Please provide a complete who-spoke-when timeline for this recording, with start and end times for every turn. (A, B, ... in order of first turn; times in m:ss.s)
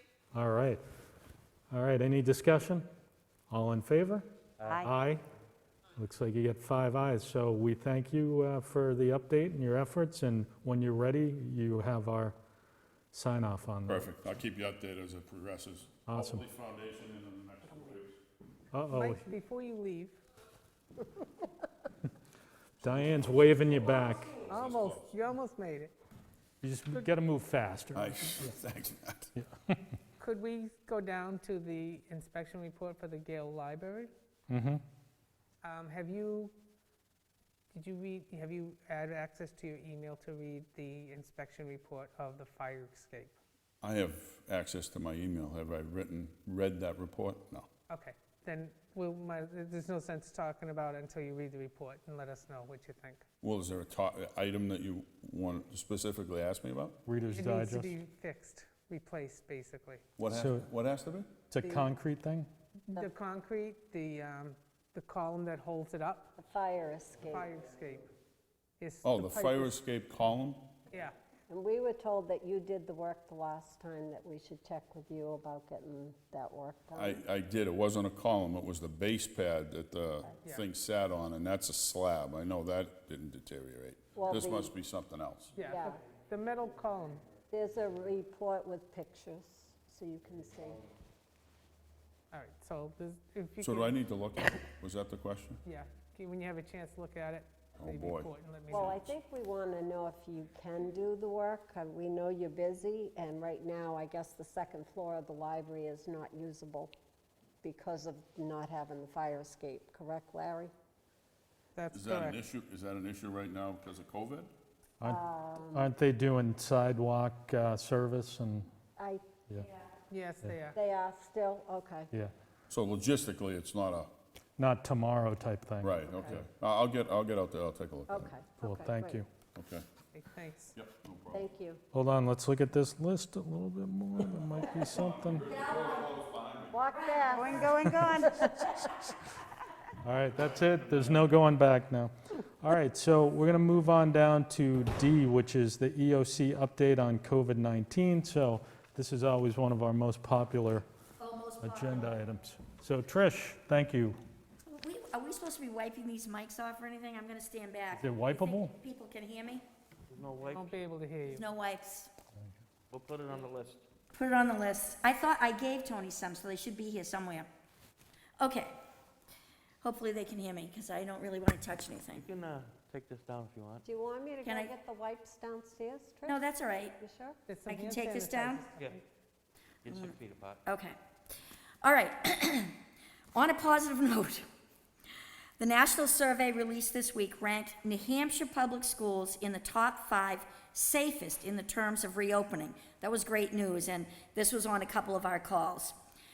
0:00.3-0:00.8 A
0:01.7-0:02.9 A
0:03.5-0:04.3 A
0:04.8-0:05.2 A
0:06.0-0:12.4 A
0:13.1-0:14.1 A
0:13.9-0:18.2 B
0:16.1-0:16.4 A
0:18.7-0:19.3 A
0:18.9-0:20.2 C
0:22.8-0:24.4 A
0:23.0-0:25.0 B
0:24.5-0:25.9 C
0:26.6-0:28.6 A
0:28.0-0:29.3 B
0:29.4-0:29.8 A
0:30.2-0:34.1 C
0:34.5-0:34.8 A
0:35.6-0:36.6 C
0:37.7-0:43.4 C
0:43.8-0:47.7 B
0:47.9-0:53.3 C
0:53.4-0:57.0 B
0:57.0-0:57.9 A
0:57.3-1:00.0 C
1:00.2-1:01.4 B
1:00.3-1:00.7 A
1:01.5-1:02.5 A
1:01.6-1:01.9 C
1:02.9-1:06.3 C
1:06.4-1:07.5 D
1:07.3-1:08.1 C
1:08.8-1:09.8 C
1:09.0-1:10.7 B
1:10.9-1:11.2 C
1:11.5-1:17.2 D
1:17.0-1:25.5 B
1:24.2-1:24.7 D
1:25.6-1:27.2 C
1:25.6-1:26.0 D
1:27.5-1:30.8 D
1:32.3-1:34.1 C
1:33.6-1:35.6 B
1:35.6-1:39.1 C
1:37.8-1:38.3 B
1:38.7-1:46.9 D
1:47.6-1:50.7 D
1:51.8-1:52.4 C
1:51.9-1:54.5 B
1:55.0-1:58.7 A
1:55.0-1:55.9 D
1:59.0-1:59.2 D
2:00.1-2:00.8 C
2:00.7-2:02.1 D
2:02.7-2:04.1 B
2:04.6-2:06.4 A
2:05.8-2:08.3 B
2:08.1-2:09.2 D
2:08.6-2:09.3 A
2:09.6-2:09.8 B
2:10.1-2:10.8 C
2:10.8-2:11.5 B
2:11.3-2:11.8 D
2:11.9-2:15.5 A
2:14.9-2:16.8 B
2:15.5-2:16.0 E
2:16.7-2:17.8 D
2:17.0-2:18.9 E
2:20.0-2:30.9 A
2:31.2-2:32.2 E
2:31.6-2:34.2 A
2:34.7-2:39.6 E
2:38.0-2:38.8 A
2:40.1-2:40.7 F
2:40.5-2:41.4 C
2:41.2-2:42.1 E
2:42.9-2:43.8 F
2:44.1-2:47.5 E
2:48.4-2:48.8 E
2:49.8-2:52.2 E
2:52.1-2:53.8 F
2:53.8-2:57.4 D
2:54.4-2:54.7 E
2:56.3-2:57.0 E
2:57.5-2:59.0 C
2:57.7-2:58.7 E
2:59.8-3:00.6 F
2:59.9-3:01.0 E
3:01.8-3:02.7 E
3:03.4-3:04.5 E
3:05.6-3:16.0 E